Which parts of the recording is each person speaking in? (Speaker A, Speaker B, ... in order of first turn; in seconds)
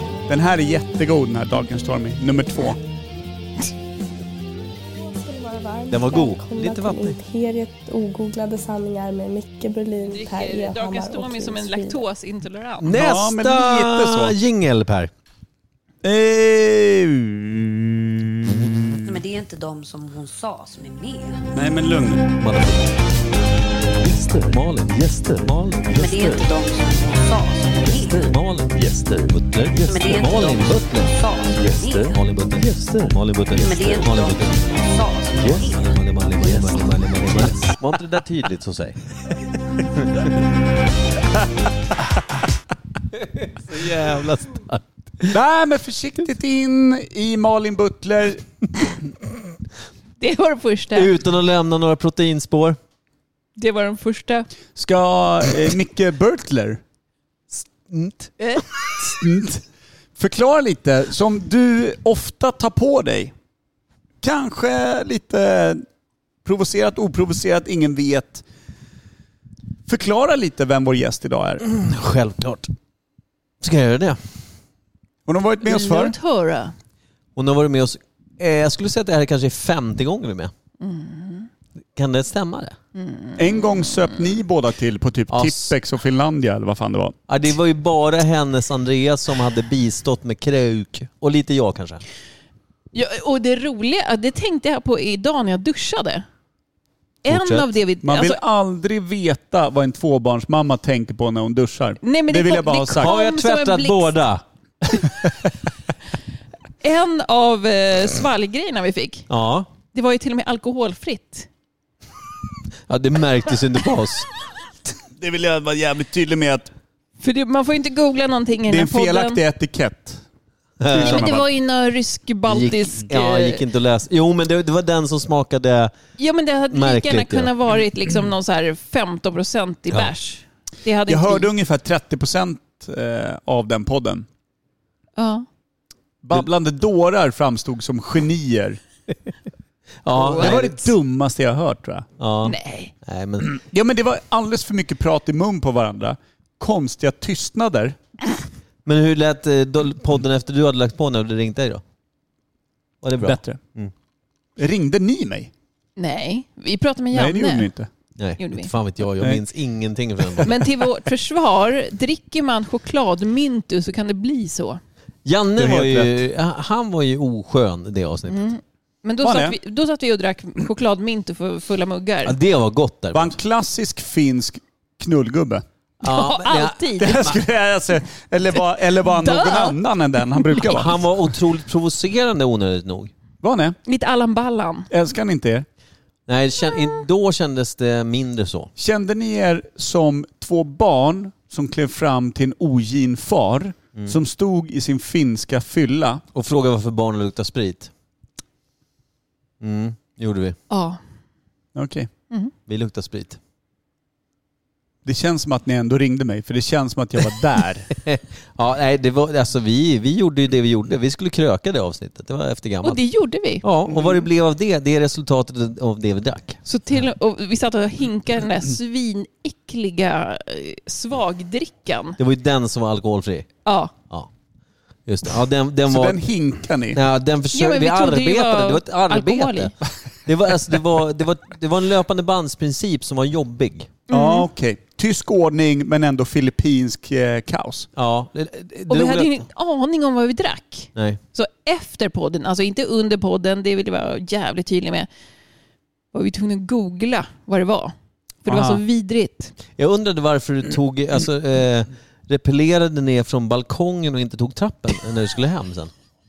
Speaker A: 0.3-2.8, 12.8-14.4, 16.0-18.7, 21.5-22.3, 45.3-48.9, 54.8-56.8, 59.2-59.6, 60.2-63.3, 64.2-65.8, 66.4-68.4, 69.9-71.6, 75.2-76.2, 83.4-87.2, 98.0-103.1, 115.1-116.7, 118.7-120.2, 120.9-121.5, 131.1-134.3, 136.2-138.8, 140.2-142.1, 143.4-148.0, 153.2-153.6, 154.6-155.5, 157.1-157.9, 159.2-159.4, 165.6-166.2, 169.2-169.6, 173.1-175.6, 177.0-180.9, 183.4-183.8, 184.9-185.7, 188.8-196.2, 201.8-202.1, 205.1-207.9, 213.9-214.3, 225.8-227.0, 234.1-237.9, 248.4-248.8
Speaker B: 5.0-12.0
Speaker C: 5.9-7.2, 12.8-15.1, 22.4-22.9, 24.0-26.5, 27.9-34.6, 35.4-39.0, 40.0-40.2, 43.1-45.4, 50.9-52.8, 57.5-58.3, 71.6-72.7, 73.6-74.2, 77.4-80.5, 82.0-82.8, 85.3-85.7, 87.3-92.0, 97.3-97.7, 103.0-104.4, 109.3-109.7, 112.9-114.3, 120.8-121.3, 122.5-125.9, 126.7-127.5, 140.0-140.9, 142.2-143.6, 148.8-151.8, 153.0-153.9, 158.2-160.5, 165.2-168.5, 172.2-173.4, 176.0-177.4, 180.6-183.1, 186.3-188.7, 196.3-197.9, 199.6-200.6, 202.7-203.4, 207.9-213.0, 213.6-216.6, 222.2-223.5, 225.1-226.2, 226.9-229.7, 230.2-233.9, 237.9-239.4, 249.8-255.9
Speaker D: 10.1-12.9, 50.2-51.1, 53.6-54.5, 58.4-58.9, 75.6-76.7, 80.8-81.5, 82.9-83.8, 92.9-96.2, 97.2-98.4, 102.0-104.1, 106.8-109.3, 109.8-111.5, 117.2-119.4, 121.0-123.6, 126.2-131.5, 135.2-135.4, 142.4-142.9, 156.0-157.7, 158.4-158.7, 160.4-164.8, 168.3-172.3, 176.0-177.3, 179.1-179.8, 180.3-180.6, 183.9-184.9, 200.7-201.0, 212.8-213.6, 216.7-222.2, 223.7-223.9, 227.5-229.7, 234.1-234.5, 238.9-245.1, 246.1-247.9, 248.4-249.5
Speaker E: 19.1-21.4, 25.9-28.4, 29.9-32.2, 33.5-37.6